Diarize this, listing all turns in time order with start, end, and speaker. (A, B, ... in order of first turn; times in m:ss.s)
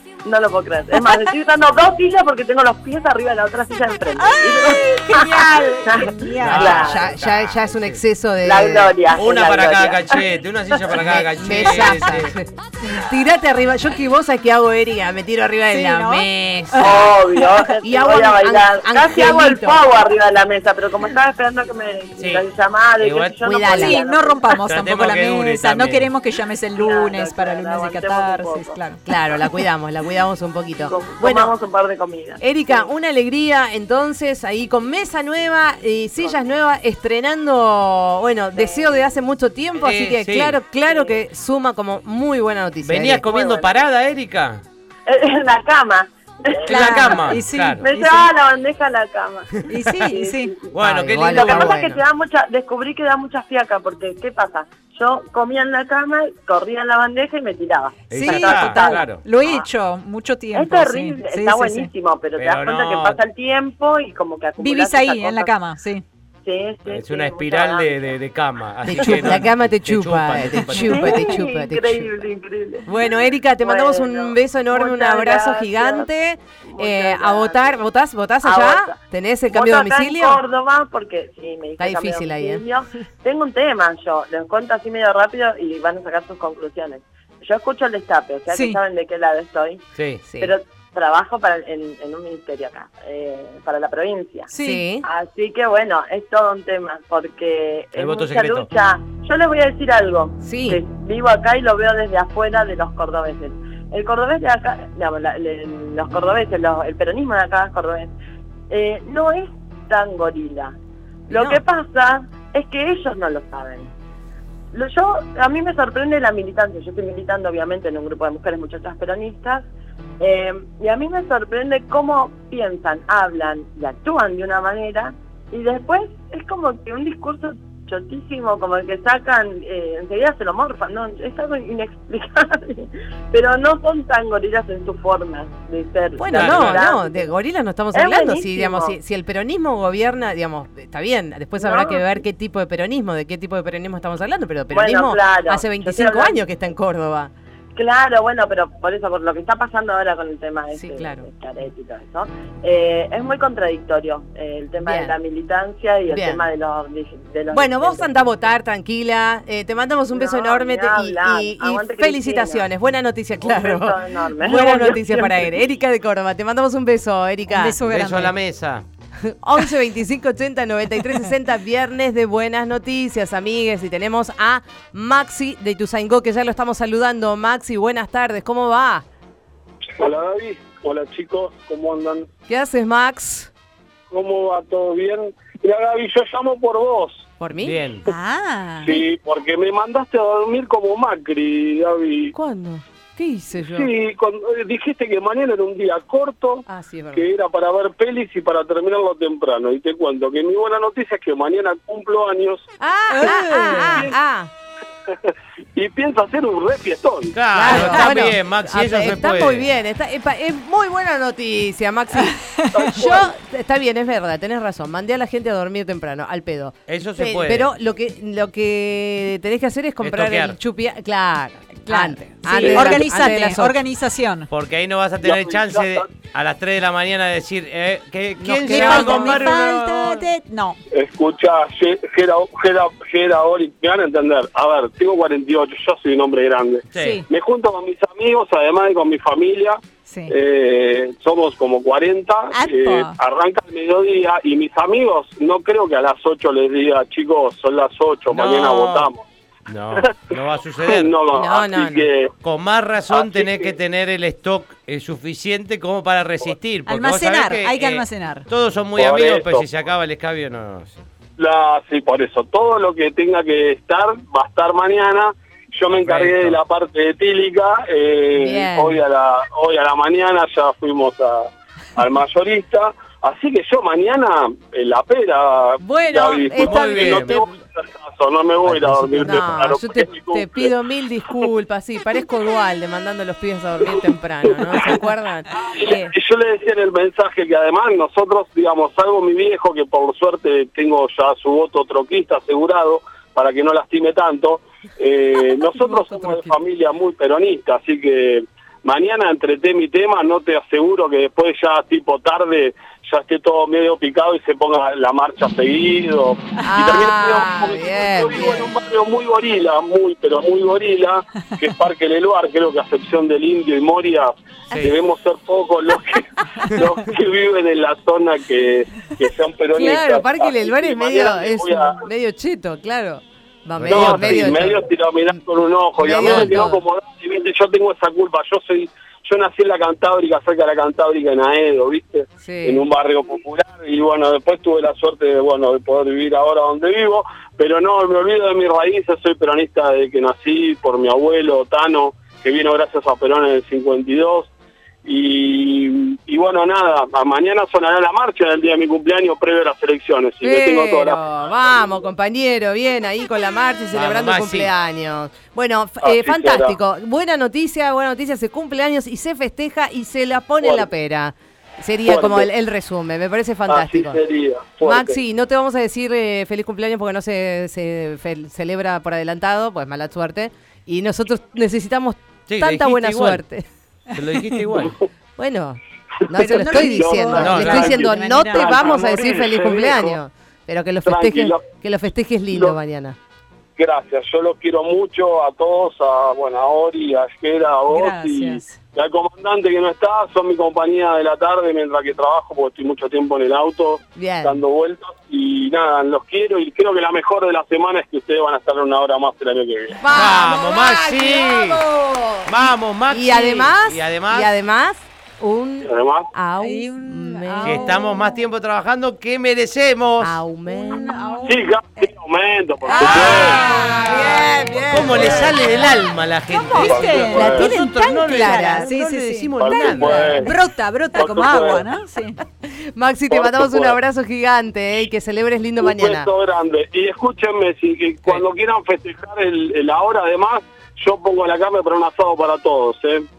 0:00.2-0:07.1 A
0:04.2-0:06.9 B
0:06.4-0:08.0 C
0:06.7-0:09.0 D
0:08.4-0:10.2 A
0:09.1-0:12.3 C
0:10.9-0:17.0 D
0:15.7-0:17.1 B
0:16.8-0:24.5 A
0:17.8-0:19.8 D
0:22.2-0:22.5 C
0:23.0-0:23.6 C
0:23.5-0:24.0 D
0:23.6-0:29.0 B
0:24.6-0:26.1 C
0:26.8-0:28.8 A
0:29.0-0:31.5 D
0:30.8-0:32.9 A
0:32.4-0:43.2 D
0:38.5-0:39.0 A
0:39.8-0:40.6 C
0:40.9-0:41.2 A
0:42.8-0:44.6 C
0:43.2-0:43.9 A
0:45.0-0:59.7 A
0:46.7-0:47.8 C
0:46.7-0:48.3 B
0:49.7-0:50.6 B
0:50.7-0:51.8 C
0:50.8-0:52.0 D
0:58.1-0:59.2 C
0:58.1-1:01.9 B
1:00.5-1:05.5 A
1:02.4-1:03.2 C
1:04.6-1:06.0 B
1:06.4-1:08.2 A
1:06.9-1:11.3 C
1:08.8-1:12.1 D
1:09.0-1:09.3 B
1:10.8-1:16.1 A
1:12.9-1:20.4 D
1:16.7-1:17.7 A
1:18.4-1:19.0 A
1:19.5-1:34.5 A
1:21.8-1:22.6 D
1:28.5-1:28.8 B
1:30.0-1:30.2 C
1:30.2-1:30.5 D
1:34.5-1:34.9 B
1:34.6-1:35.0 D
1:35.0-1:48.1 A
1:38.0-1:38.7 C
1:40.4-1:40.8 D
1:48.7-1:50.8 A
1:51.3-1:51.6 D
1:51.3-1:53.9 A
1:54.7-1:59.7 A
2:00.2-2:17.3 A
2:16.2-2:27.3 D
2:16.3-2:16.8 C
2:17.9-2:19.0 A
2:21.6-2:22.0 A
2:24.7-2:26.4 A
2:27.7-2:38.4 A
2:30.7-2:31.3 D
2:34.8-2:35.1 D
2:36.1-2:36.5 D
2:37.5-2:47.8 D
2:40.1-2:42.7 A
2:43.4-2:45.6 A
2:47.5-2:48.4 B
2:47.8-2:48.8 C
2:49.2-2:59.0 D
3:00.0-3:02.3 E
3:02.5-3:03.5 D
3:04.1-3:07.3 E
3:07.4-3:07.8 D
3:07.6-3:08.0 C
3:08.0-3:09.0 B
3:08.8-3:12.3 E
3:12.3-3:13.9 D
3:13.6-3:22.6 E
3:16.6-3:17.3 D
3:22.8-3:24.5 D
3:23.1-3:24.1 B
3:25.1-3:27.4 E
3:27.3-3:29.7 C
3:27.5-3:43.8 D
3:27.7-3:28.2 B
3:32.2-3:32.9 B
3:32.7-3:33.3 E
3:36.9-3:37.7 C
3:40.0-3:40.6 C
3:41.8-3:44.5 B
3:42.6-3:42.9 E
3:44.5-3:50.2 C
3:45.2-3:46.1 E
3:48.4-3:49.6 D
3:48.6-3:50.8 B
3:50.9-4:09.2 E
3:56.9-3:57.2 C
3:57.0-3:57.2 B
4:00.0-4:00.3 B
4:02.5-4:03.2 B
4:08.3-4:09.1 C
4:09.7-4:11.2 C
4:10.0-4:12.3 E
4:11.3-4:12.1 D
4:12.4-4:21.0 C
4:13.1-4:13.7 E
4:16.8-4:18.5 B
4:19.0-4:19.7 E
4:21.4-4:40.7 E
4:25.9-4:26.6 C
4:28.3-4:29.0 D
4:35.8-4:37.4 D
4:36.6-4:37.4 C
4:38.8-4:39.6 C
4:38.8-4:46.1 D
4:44.6-4:45.0 E
4:45.5-5:22.0 E
4:55.8-4:56.5 B
5:06.6-5:08.7 D
5:14.7-5:15.0 C
5:19.7-5:25.4 D
5:23.8-5:24.7 C
5:23.8-5:44.5 E
5:26.0-5:26.8 D
5:26.2-5:26.6 C
5:32.4-5:32.8 D
5:45.0-5:51.2 E
5:50.4-6:04.2 D
5:53.9-5:54.7 C
5:56.0-5:56.7 E
6:00.6-6:00.8 E
6:02.0-6:02.5 E
6:03.7-6:05.2 E
6:04.8-6:13.6 D
6:12.5-6:13.4 C
6:14.1-6:15.0 C
6:14.2-6:14.8 B
6:15.4-6:23.2 D
6:16.2-6:20.2 E
6:16.3-6:19.2 B
6:17.4-6:17.9 C
6:21.0-6:21.6 E
6:23.8-6:40.0 E
6:27.9-6:28.8 B
6:34.1-6:34.6 D
6:40.0-6:48.0 D
6:40.1-6:41.8 C
6:42.4-6:44.5 C
6:45.8-6:46.3 E
6:46.6-6:48.5 B
6:47.6-6:50.4 C
6:50.2-6:51.2 D
6:50.7-6:52.1 B
6:51.4-6:53.7 E
6:52.8-6:54.8 B
6:52.9-6:55.7 D
6:53.0-7:00.4 C
6:55.1-6:55.5 E
6:55.4-7:02.4 B
6:56.8-6:57.7 E
6:57.3-6:58.9 D
6:59.6-7:00.5 E
7:01.1-7:01.8 E
7:02.8-7:06.3 D
7:03.3-7:04.0 E
7:05.8-7:13.2 E